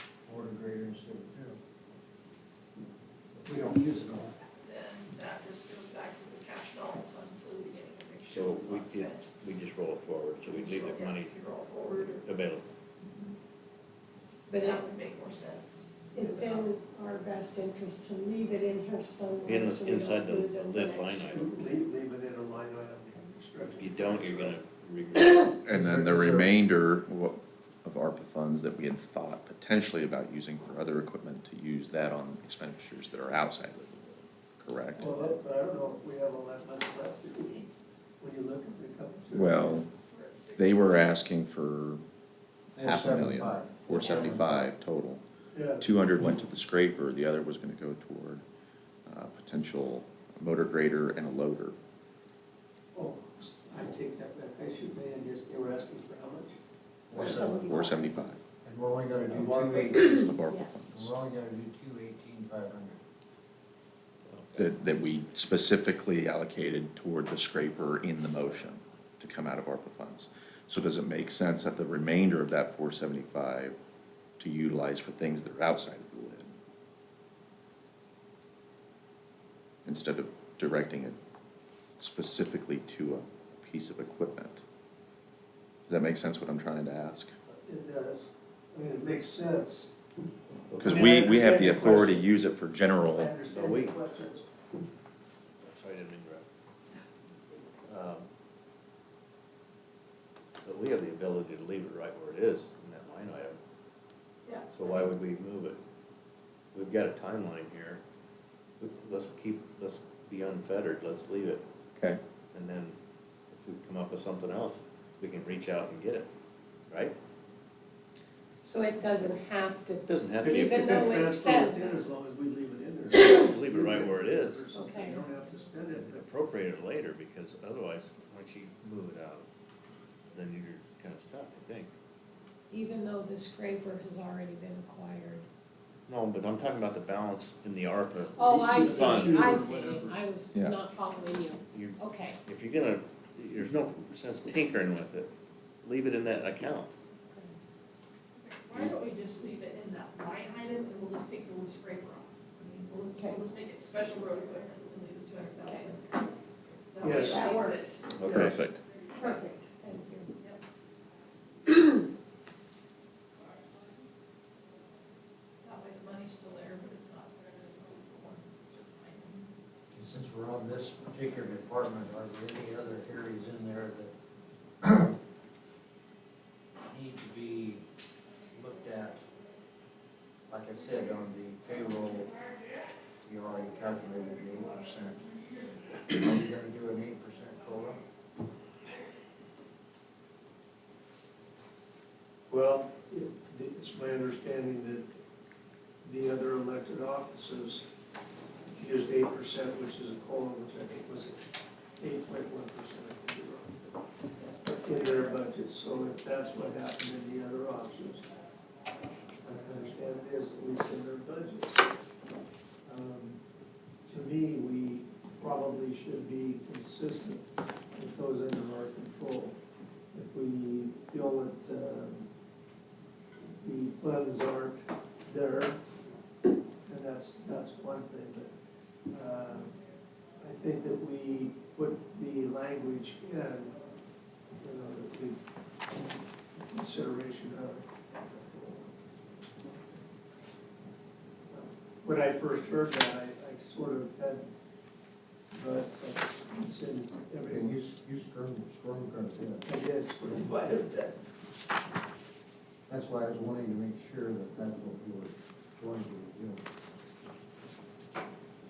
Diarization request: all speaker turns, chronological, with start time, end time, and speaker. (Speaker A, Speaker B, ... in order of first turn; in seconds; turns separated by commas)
Speaker A: 0.3-1.6, Speaker A: 3.4-4.4, Speaker B: 4.6-9.3, Speaker C: 8.3-12.7, Speaker B: 10.4-12.3, Speaker D: 14.5-14.8, Speaker B: 14.5-16.7, Speaker D: 16.1-21.8, Speaker C: 19.4-21.5, Speaker E: 21.3-24.6, Speaker C: 23.8-25.5, Speaker F: 25.6-35.3, Speaker A: 25.7-26.6, Speaker E: 35.0-39.8, Speaker F: 39.3-39.9, Speaker B: 40.1-40.9, Speaker F: 40.5-42.0, Speaker A: 42.8-44.5, Speaker F: 42.8-45.2, Speaker D: 44.0-44.4, Speaker E: 45.5-45.9, Speaker F: 45.8-48.4, Speaker F: 49.1-51.8, Speaker E: 52.9-56.6, Speaker A: 57.1-57.6, Speaker D: 57.1-58.2, Speaker F: 57.1-58.4, Speaker A: 58.6-60.3, Speaker D: 59.6-60.9, Speaker F: 60.1-61.1, Speaker A: 60.9-63.0, Speaker C: 64.3-64.6, Speaker F: 64.6-73.8, Speaker F: 74.4-76.5, Speaker F: 79.9-81.2, Speaker F: 82.0-84.6, Speaker F: 85.9-87.3, Speaker E: 87.5-89.9, Speaker C: 90.7-91.2, Speaker F: 90.8-93.4, Speaker E: 90.8-92.3, Speaker E: 93.1-94.5, Speaker C: 93.5-94.0, Speaker C: 95.6-96.5, Speaker C: 97.8-98.3, Speaker C: 100.6-103.6, Speaker C: 104.7-105.8, Speaker C: 106.7-108.0, Speaker C: 108.8-111.6, Speaker C: 112.5-113.0, Speaker C: 113.5-116.3, Speaker C: 116.9-117.2, Speaker D: 118.6-122.0, Speaker C: 120.1-121.0, Speaker E: 120.4-126.2, Speaker C: 123.1-124.7, Speaker D: 124.7-125.3, Speaker C: 125.9-129.5, Speaker C: 130.3-131.9, Speaker D: 132.7-135.5, Speaker C: 136.1-139.6, Speaker D: 138.3-142.4, Speaker E: 138.4-140.2, Speaker F: 140.5-140.8, Speaker C: 141.7-145.3, Speaker C: 145.8-146.9, Speaker D: 147.3-147.5, Speaker B: 148.4-156.4, Speaker D: 153.1-153.4, Speaker D: 155.6-156.0, Speaker B: 156.9-158.4, Speaker E: 157.0-157.4, Speaker D: 157.0-157.8, Speaker C: 158.2-158.6, Speaker E: 158.2-158.6, Speaker F: 158.4-158.8, Speaker D: 159.1-160.3, Speaker B: 165.6-169.5, Speaker A: 169.9-174.1, Speaker A: 174.8-175.1, Speaker A: 176.9-177.8, Speaker A: 178.5-179.2, Speaker A: 180.5-182.3, Speaker A: 183.2-185.2, Speaker A: 186.1-188.0, Speaker E: 192.5-195.1, Speaker E: 196.0-197.9, Speaker E: 198.7-201.4, Speaker E: 202.0-204.0, Speaker E: 204.6-208.3, Speaker E: 209.4-211.9, Speaker E: 212.8-213.4, Speaker E: 214.1-219.6, Speaker E: 220.1-222.3, Speaker E: 223.6-225.8, Speaker E: 226.8-228.5, Speaker E: 229.1-229.8, Speaker E: 230.4-233.7, Speaker E: 234.6-235.4, Speaker E: 236.6-240.0, Speaker E: 241.5-244.5, Speaker E: 245.5-247.8, Speaker A: 247.4-249.6, Speaker E: 249.6-251.2, Speaker A: 252.9-256.6